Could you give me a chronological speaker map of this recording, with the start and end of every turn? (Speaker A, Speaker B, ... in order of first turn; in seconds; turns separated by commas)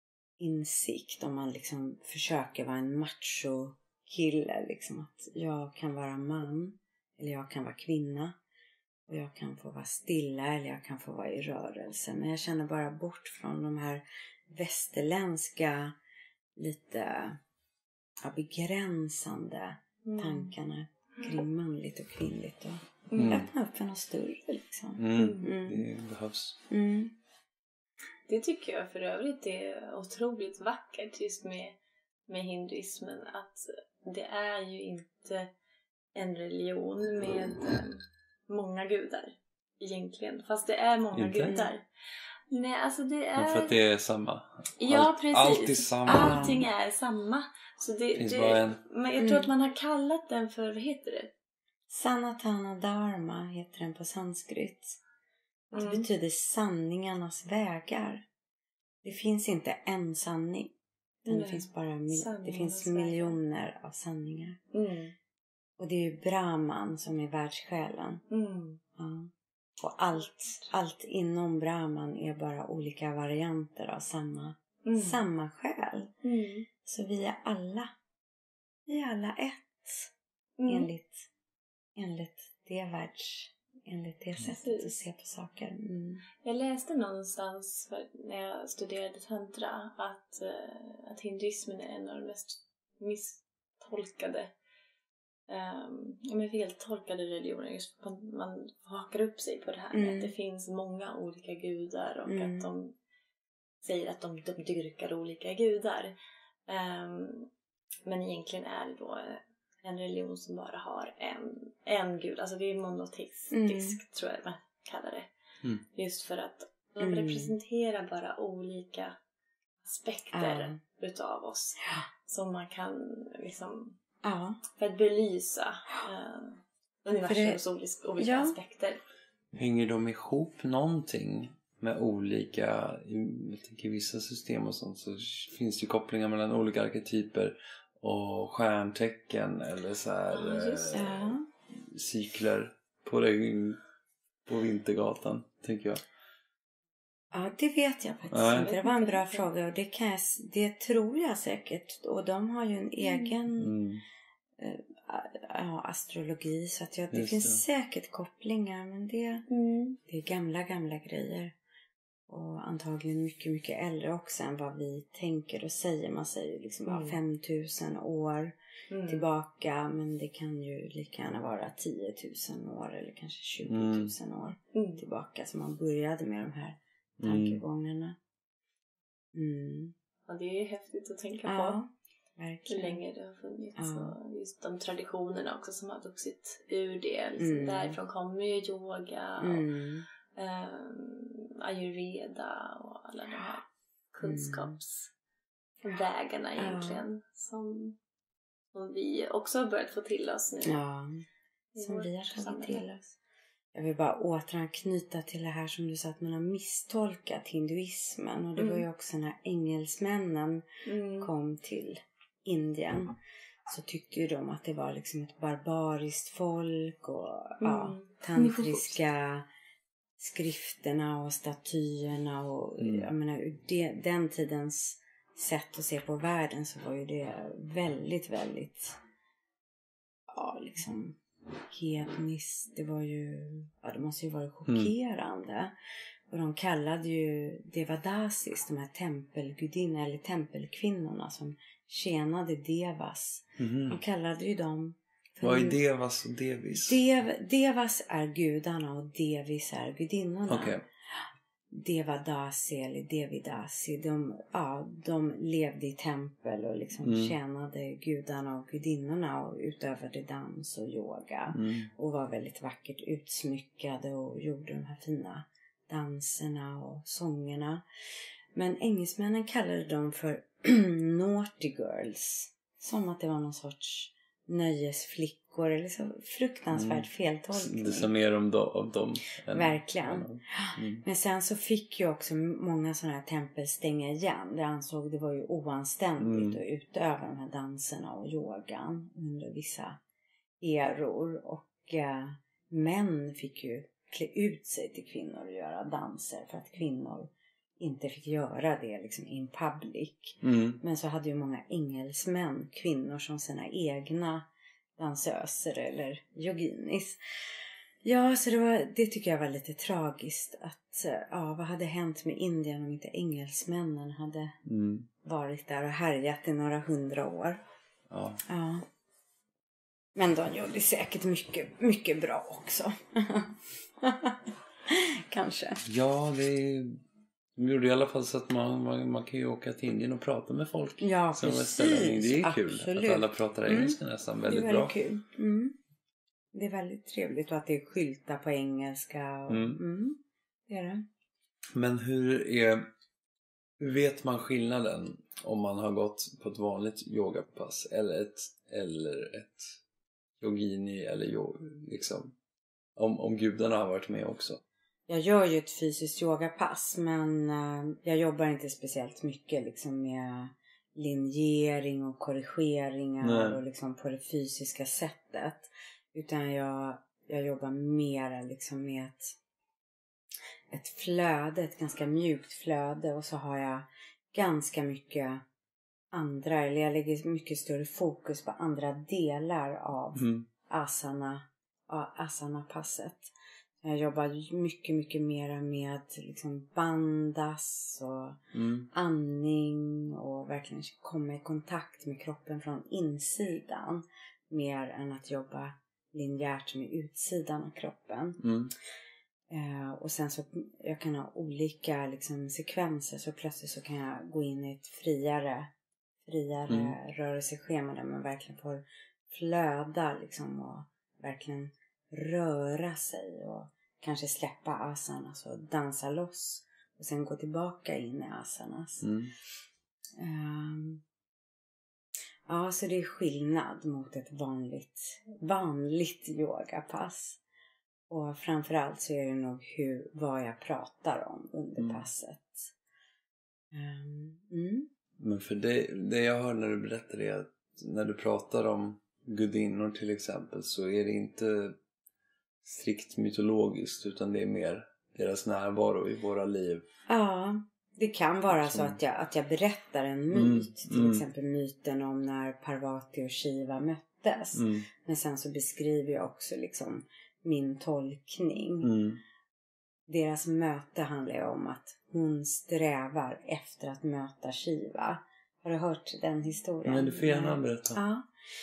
Speaker A: 0.4-8.4, Speaker A: 9.1-15.9, Speaker A: 16.6-17.4, Speaker A: 18.2-25.9, Speaker B: 20.0-20.5, Speaker B: 23.1-23.4, Speaker C: 23.1-23.5, Speaker C: 25.0-26.6, Speaker B: 25.1-25.5, Speaker A: 26.7-27.1, Speaker B: 28.3-31.8, Speaker B: 32.3-35.5, Speaker B: 36.1-41.8, Speaker C: 41.1-41.6, Speaker B: 42.5-43.8, Speaker C: 43.4-46.6, Speaker B: 44.8-51.3, Speaker A: 46.1-46.6, Speaker C: 48.1-48.8, Speaker A: 49.2-49.5, Speaker A: 51.9-55.0, Speaker B: 55.7-56.0, Speaker A: 55.7-58.2, Speaker A: 59.0-60.7, Speaker A: 61.2-64.6, Speaker B: 61.3-63.4, Speaker B: 64.7-65.1, Speaker A: 65.8-68.2, Speaker B: 68.3-68.8, Speaker A: 69.0-76.1, Speaker B: 74.8-75.2, Speaker B: 76.2-76.7, Speaker A: 76.8-77.9, Speaker A: 78.9-80.1, Speaker B: 80.6-80.9, Speaker A: 80.7-81.3, Speaker A: 82.0-86.2, Speaker B: 84.5-85.0, Speaker B: 86.4-94.5, Speaker B: 95.5-102.9, Speaker A: 99.9-100.3, Speaker A: 102.3-102.7, Speaker B: 103.8-106.1, Speaker B: 106.7-107.5, Speaker B: 108.0-115.3, Speaker A: 113.5-114.0, Speaker B: 115.9-119.2, Speaker A: 117.0-117.5, Speaker B: 119.8-124.0, Speaker A: 120.3-120.8, Speaker A: 124.2-124.6, Speaker B: 124.8-129.0, Speaker A: 127.2-127.6, Speaker A: 128.2-128.6, Speaker C: 129.5-143.8, Speaker B: 140.3-141.3, Speaker A: 140.9-141.4, Speaker C: 144.4-146.0, Speaker A: 147.3-153.8, Speaker C: 148.3-148.7, Speaker B: 148.6-149.4, Speaker B: 153.0-153.3, Speaker C: 153.6-154.0, Speaker A: 154.6-159.4, Speaker C: 157.1-157.6, Speaker B: 159.5-160.0, Speaker A: 160.1-161.5, Speaker A: 162.3-168.6, Speaker B: 166.8-167.2, Speaker B: 168.9-169.2, Speaker A: 169.1-178.2, Speaker C: 173.7-174.1, Speaker B: 174.7-175.0, Speaker C: 177.2-177.6, Speaker A: 179.3-179.9, Speaker B: 180.3-181.8, Speaker A: 181.4-183.0, Speaker B: 182.7-189.7, Speaker A: 183.8-184.2, Speaker A: 187.4-188.0, Speaker A: 189.4-190.1, Speaker B: 190.3-195.1, Speaker A: 194.2-194.8, Speaker B: 195.8-198.0, Speaker A: 196.6-197.0, Speaker B: 198.7-200.8, Speaker A: 200.6-201.2, Speaker B: 201.7-202.8, Speaker A: 201.8-203.2, Speaker A: 203.7-210.7, Speaker B: 208.6-208.8, Speaker B: 210.8-211.3, Speaker A: 211.2-213.1, Speaker A: 213.7-219.5, Speaker B: 217.6-218.9, Speaker A: 220.2-229.0, Speaker C: 222.8-223.1, Speaker A: 230.3-235.7, Speaker A: 236.3-245.8, Speaker C: 243.6-244.0, Speaker C: 245.4-247.0, Speaker A: 246.8-267.8, Speaker C: 250.5-250.8, Speaker C: 257.0-257.3, Speaker C: 261.5-261.9, Speaker A: 268.5-278.1, Speaker C: 276.7-281.0, Speaker A: 279.5-290.0, Speaker C: 286.2-286.6, Speaker A: 290.6-304.5, Speaker C: 300.4-300.8, Speaker A: 305.0-314.5, Speaker C: 314.6-315.1, Speaker A: 315.2-317.6, Speaker C: 318.1-318.4, Speaker A: 318.5-318.9, Speaker A: 320.1-325.8, Speaker C: 325.9-327.0, Speaker C: 327.6-334.9, Speaker A: 331.0-335.8, Speaker A: 336.5-341.0, Speaker C: 339.5-339.8, Speaker C: 341.7-342.9, Speaker C: 343.8-349.7, Speaker C: 350.4-352.3, Speaker C: 352.9-354.6, Speaker A: 355.1-369.3, Speaker C: 363.2-363.6, Speaker A: 370.7-375.4, Speaker A: 376.1-383.3, Speaker C: 380.1-380.4, Speaker A: 383.8-388.4, Speaker C: 388.5-388.9, Speaker A: 388.9-398.4, Speaker C: 398.4-398.7, Speaker A: 399.5-405.7, Speaker A: 406.2-419.1, Speaker C: 406.7-406.9, Speaker C: 419.0-419.3, Speaker A: 420.2-421.0, Speaker A: 422.5-427.4, Speaker A: 428.1-432.7, Speaker C: 431.8-432.0, Speaker A: 433.7-434.9, Speaker C: 435.2-441.8, Speaker C: 442.6-446.9, Speaker A: 447.1-458.9, Speaker C: 448.5-449.0, Speaker C: 450.3-451.2, Speaker C: 454.6-454.9, Speaker C: 458.8-459.2, Speaker A: 460.1-468.3, Speaker C: 466.8-468.0